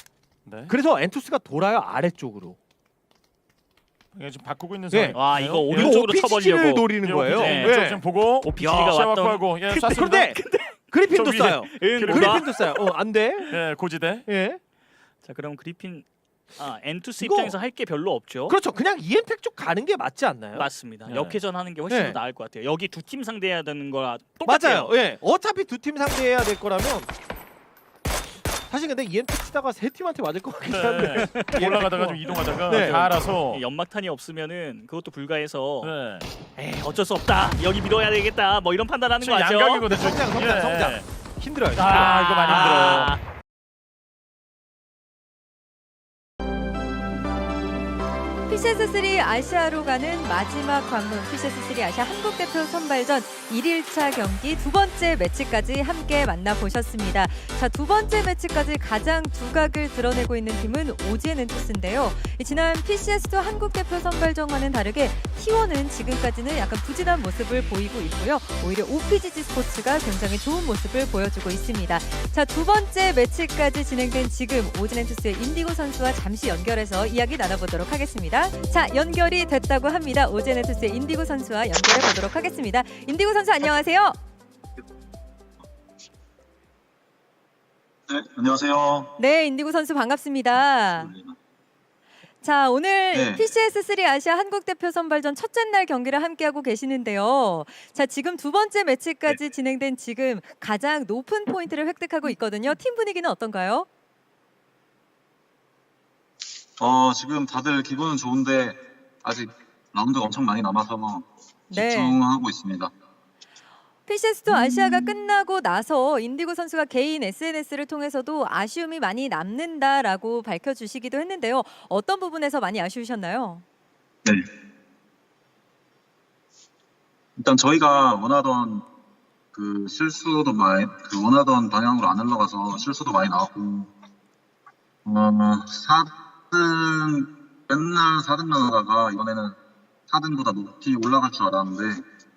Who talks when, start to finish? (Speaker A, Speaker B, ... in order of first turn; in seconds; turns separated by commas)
Speaker A: 0.5-0.7, Speaker B: 0.7-2.6, Speaker A: 4.1-6.0, Speaker B: 4.9-5.2, Speaker C: 5.1-7.8, Speaker B: 5.7-8.0, Speaker A: 7.0-10.3, Speaker C: 8.5-10.9, Speaker B: 9.8-10.4, Speaker B: 10.9-13.6, Speaker A: 11.1-12.6, Speaker C: 11.7-12.9, Speaker A: 13.5-14.3, Speaker B: 14.3-14.6, Speaker C: 15.2-18.6, Speaker B: 17.2-17.6, Speaker B: 18.5-20.7, Speaker C: 20.5-24.9, Speaker A: 21.1-21.4, Speaker B: 21.9-22.2, Speaker B: 24.4-27.1, Speaker B: 28.7-33.1, Speaker A: 30.7-33.6, Speaker C: 30.9-35.9, Speaker A: 35.8-36.2, Speaker C: 36.5-39.9, Speaker B: 39.2-43.1, Speaker A: 39.4-41.1, Speaker A: 41.7-43.1, Speaker C: 41.9-43.2, Speaker D: 48.5-84.2, Speaker E: 88.1-89.1, Speaker D: 89.2-91.1, Speaker E: 90.9-91.3, Speaker D: 92.4-103.9, Speaker E: 93.1-93.5, Speaker E: 106.8-112.9, Speaker D: 111.7-112.2, Speaker D: 114.1-123.6, Speaker E: 114.5-115.1, Speaker E: 127.3-128.9, Speaker E: 129.5-133.9, Speaker E: 135.0-139.6, Speaker E: 140.1-142.0